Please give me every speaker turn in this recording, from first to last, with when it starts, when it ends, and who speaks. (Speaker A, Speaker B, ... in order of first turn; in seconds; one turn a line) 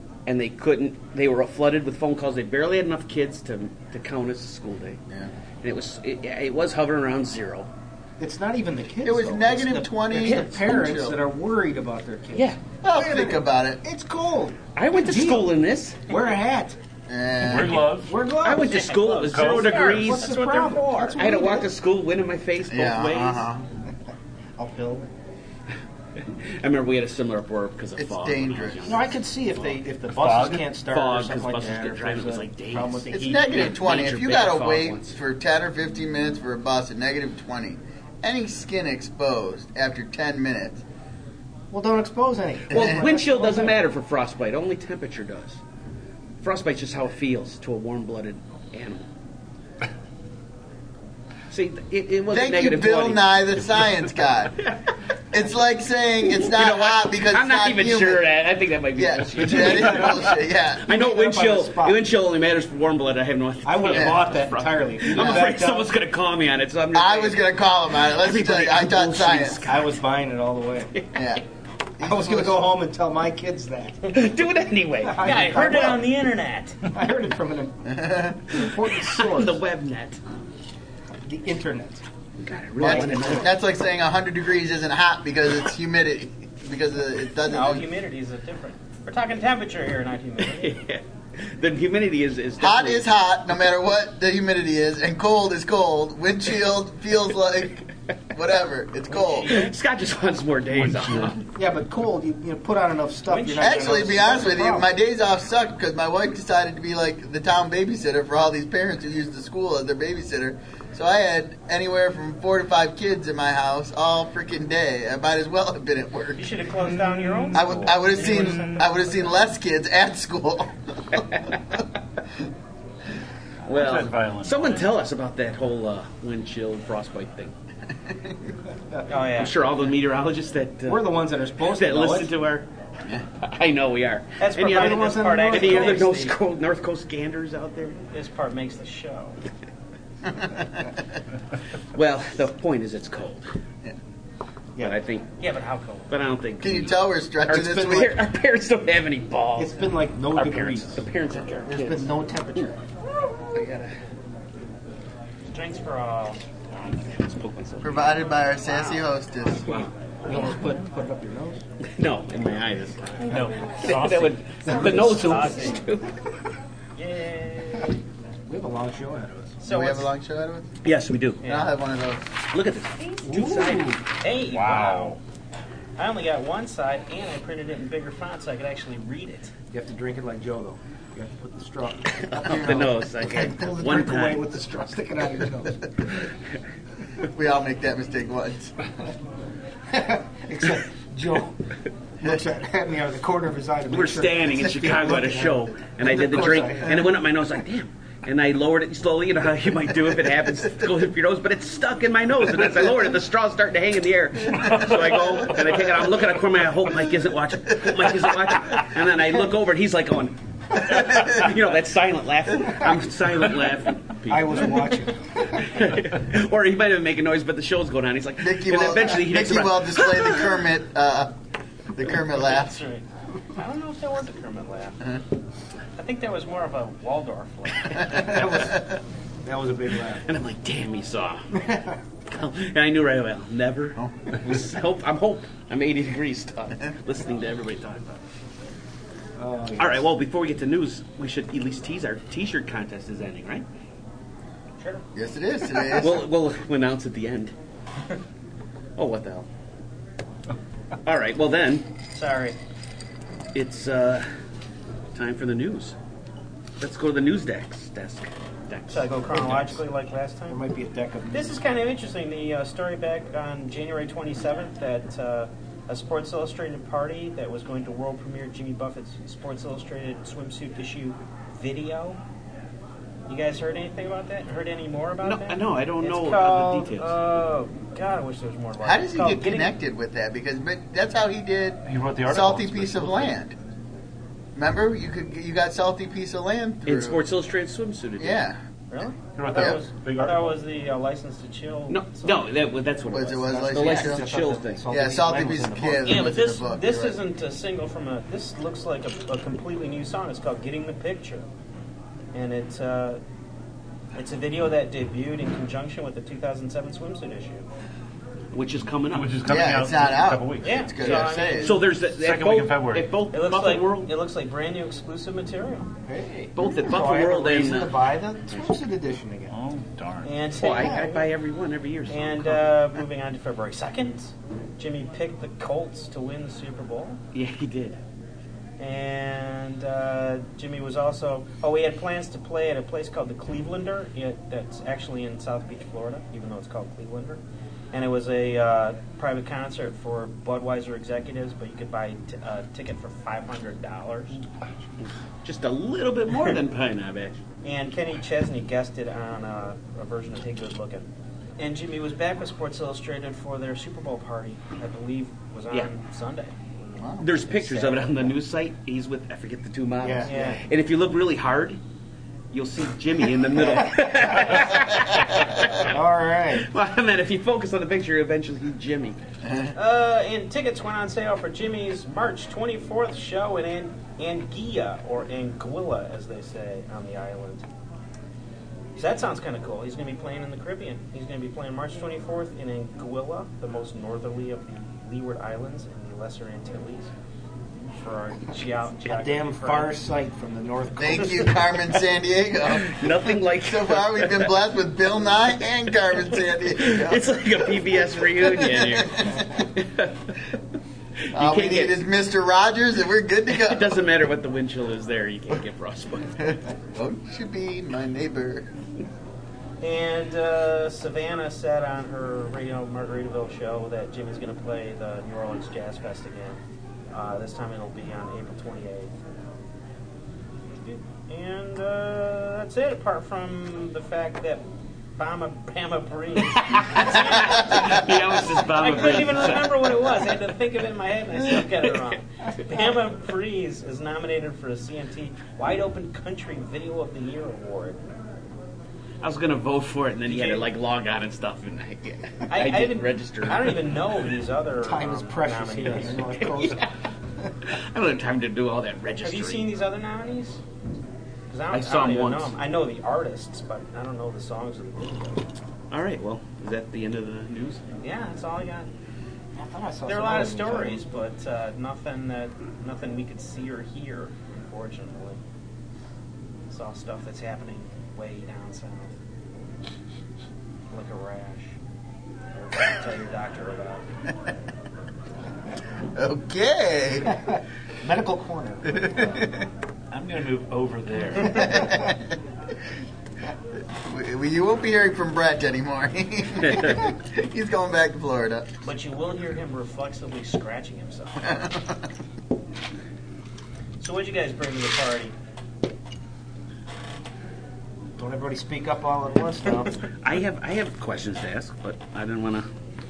Speaker A: 0.3-5.0
Speaker A: 5.6-7.7
Speaker B: 8.2-15.5
Speaker C: 9.0-11.2
Speaker A: 10.2-10.6
Speaker A: 12.3-12.6
Speaker C: 12.8-13.8
Speaker A: 14.8-16.1
Speaker B: 16.1-16.8
Speaker C: 17.1-17.9
Speaker D: 17.4-18.2
Speaker B: 17.7-18.9
Speaker A: 18.4-20.4
Speaker E: 18.7-21.3
Speaker D: 19.3-19.7
Speaker B: 19.5-21.7
Speaker A: 21.1-23.5
Speaker C: 22.7-23.7
Speaker B: 24.6-25.1
Speaker A: 26.2-29.1
Speaker C: 28.0-29.0
Speaker B: 28.9-33.5
Speaker D: 30.1-30.7
Speaker A: 30.8-35.1
Speaker C: 33.1-40.8
Speaker B: 41.7-43.8
Speaker A: 42.7-45.6
Speaker A: 46.4-49.1
Speaker A: 51.5-53.3
Speaker C: 52.3-54.6
Speaker A: 54.6-55.0
Speaker C: 55.3-58.2
Speaker A: 56.4-67.5
Speaker C: 59.0-60.9
Speaker D: 59.6-60.2
Speaker B: 60.9-62.0
Speaker B: 63.6-66.0
Speaker C: 63.9-64.2
Speaker C: 65.1-65.5
Speaker C: 66.9-69.8
Speaker A: 68.0-69.9
Speaker B: 69.6-70.9
Speaker A: 70.9-71.3
Speaker C: 71.1-71.4
Speaker C: 72.0-72.7
Speaker B: 72.0-74.1
Speaker A: 74.1-75.8
Speaker B: 75.0-76.1
Speaker E: 75.2-76.8
Speaker B: 76.8-77.8
Speaker C: 77.8-78.4
Speaker B: 78.5-79.6
Speaker A: 79.0-80.2
Speaker B: 81.2-82.0
Speaker A: 82.4-83.5
Speaker B: 82.8-83.5
Speaker C: 82.8-87.9
Speaker E: 87.5-90.8
Speaker A: 90.4-93.0
Speaker C: 92.6-99.6
Speaker E: 99.1-99.7
Speaker A: 99.4-101.5
Speaker D: 100.9-101.3
Speaker B: 101.5-104.9
Speaker E: 103.3-104.2
Speaker C: 103.6-116.5
Speaker E: 116.4-119.4
Speaker C: 117.5-121.2
Speaker D: 118.2-118.7
Speaker D: 123.7-124.9
Speaker A: 123.7-127.5
Speaker E: 129.1-129.6
Speaker A: 129.3-132.7
Speaker B: 130.9-132.3
Speaker A: 133.2-138.0
Speaker E: 134.4-136.3
Speaker B: 134.7-136.1
Speaker E: 138.1-139.4
Speaker C: 140.4-140.8
Speaker A: 141.9-143.5
Speaker A: 144.8-145.3
Speaker E: 145.4-146.1
Speaker A: 146.1-146.9
Speaker C: 146.6-148.1
Speaker A: 147.5-149.7
Speaker B: 147.6-148.1
Speaker B: 149.6-151.1
Speaker A: 150.3-152.1
Speaker B: 151.7-152.8
Speaker A: 153.3-154.0
Speaker E: 155.5-156.4
Speaker A: 156.7-158.2
Speaker C: 157.8-159.9
Speaker E: 158.7-159.0
Speaker B: 159.8-161.6
Speaker A: 161.8-166.2
Speaker D: 163.2-164.8
Speaker B: 164.7-165.6
Speaker E: 164.7-165.8
Speaker E: 167.0-168.0
Speaker B: 168.5-169.6
Speaker E: 169.6-170.1
Speaker C: 169.7-170.7
Speaker A: 170.8-171.4
Speaker E: 171.4-171.7
Speaker C: 171.4-172.3
Speaker A: 172.5-173.0
Speaker E: 173.0-175.2
Speaker B: 173.2-174.0
Speaker D: 174.5-175.2
Speaker E: 176.0-179.5
Speaker B: 179.7-186.2
Speaker A: 182.1-184.5
Speaker C: 182.5-182.8
Speaker C: 187.2-188.7
Speaker B: 189.9-191.6
Speaker B: 192.2-197.2
Speaker A: 193.9-220.5
Speaker B: 214.3-215.6
Speaker C: 218.4-221.4
Speaker C: 221.9-222.8
Speaker E: 222.3-225.2
Speaker E: 226.0-228.3
Speaker B: 228.1-230.2
Speaker A: 230.1-231.6
Speaker A: 232.3-238.2
Speaker B: 239.4-240.1
Speaker A: 239.8-243.7
Speaker C: 245.1-246.2
Speaker A: 245.9-247.5
Speaker A: 249.0-249.5
Speaker A: 251.0-251.9
Speaker E: 252.1-252.6
Speaker A: 253.6-254.3
Speaker A: 255.1-256.0
Speaker A: 256.8-259.1
Speaker E: 258.9-260.6
Speaker B: 259.1-259.8
Speaker B: 260.5-261.6
Speaker E: 261.3-272.2
Speaker E: 273.3-279.7
Speaker A: 275.2-277.2
Speaker C: 278.8-283.5
Speaker D: 281.9-283.4
Speaker C: 284.6-287.2
Speaker A: 286.9-288.4
Speaker C: 288.2-288.6
Speaker E: 288.9-292.5
Speaker D: 289.4-290.6
Speaker C: 289.5-289.8
Speaker A: 291.9-294.9
Speaker C: 293.1-294.2
Speaker B: 293.5-296.4
Speaker C: 294.9-297.2
Speaker E: 296.1-301.5
Speaker E: 302.3-303.2
Speaker E: 304.1-307.7
Speaker A: 308.5-309.4
Speaker D: 309.1-310.8
Speaker C: 309.5-311.8
Speaker E: 310.6-311.8
Speaker A: 311.0-314.1
Speaker D: 312.1-313.1
Speaker E: 313.3-315.9
Speaker B: 316.1-319.5
Speaker A: 316.6-318.0
Speaker D: 319.5-320.3
Speaker E: 320.2-321.3
Speaker A: 320.6-322.6
Speaker B: 320.6-321.2
Speaker E: 322.1-327.2
Speaker A: 327.3-328.0
Speaker E: 328.8-344.4
Speaker A: 345.0-347.4
Speaker E: 347.6-358.4
Speaker C: 357.0-357.4
Speaker A: 357.2-361.8
Speaker B: 360.0-360.6
Speaker E: 360.2-360.6
Speaker A: 362.5-365.9
Speaker B: 363.6-364.6
Speaker B: 365.6-366.7
Speaker A: 366.5-369.2
Speaker E: 369.8-377.7
Speaker E: 379.0-387.1
Speaker E: 387.9-389.9
Speaker B: 389.1-391.7
Speaker C: 391.0-393.0
Speaker A: 392.8-394.5
Speaker C: 393.6-399.4
Speaker A: 396.8-400.6
Speaker A: 401.2-402.0
Speaker C: 401.3-404.0
Speaker A: 403.5-406.5
Speaker C: 406.9-408.7
Speaker E: 409.8-419.1
Speaker E: 420.8-424.6
Speaker E: 425.2-438.0
Speaker A: 426.4-430.3
Speaker A: 431.6-431.9
Speaker A: 439.2-443.9
Speaker E: 440.4-440.6
Speaker E: 442.5-446.3
Speaker B: 444.8-446.9
Speaker A: 446.5-446.9
Speaker A: 447.6-449.7
Speaker E: 449.2-450.6
Speaker E: 451.5-455.4
Speaker A: 451.7-452.6
Speaker A: 455.9-457.8
Speaker E: 458.0-458.9
Speaker B: 459.6-461.1
Speaker E: 460.1-465.4
Speaker E: 466.7-469.2
Speaker E: 470.9-471.8
Speaker E: 472.5-474.1
Speaker C: 476.1-477.4
Speaker B: 478.0-479.4
Speaker C: 478.9-479.6
Speaker D: 480.1-481.9
Speaker C: 481.4-482.3
Speaker C: 484.0-488.7
Speaker E: 488.8-491.6
Speaker C: 491.4-492.0
Speaker E: 494.0-495.3
Speaker B: 498.2-500.1
Speaker A: 500.2-502.7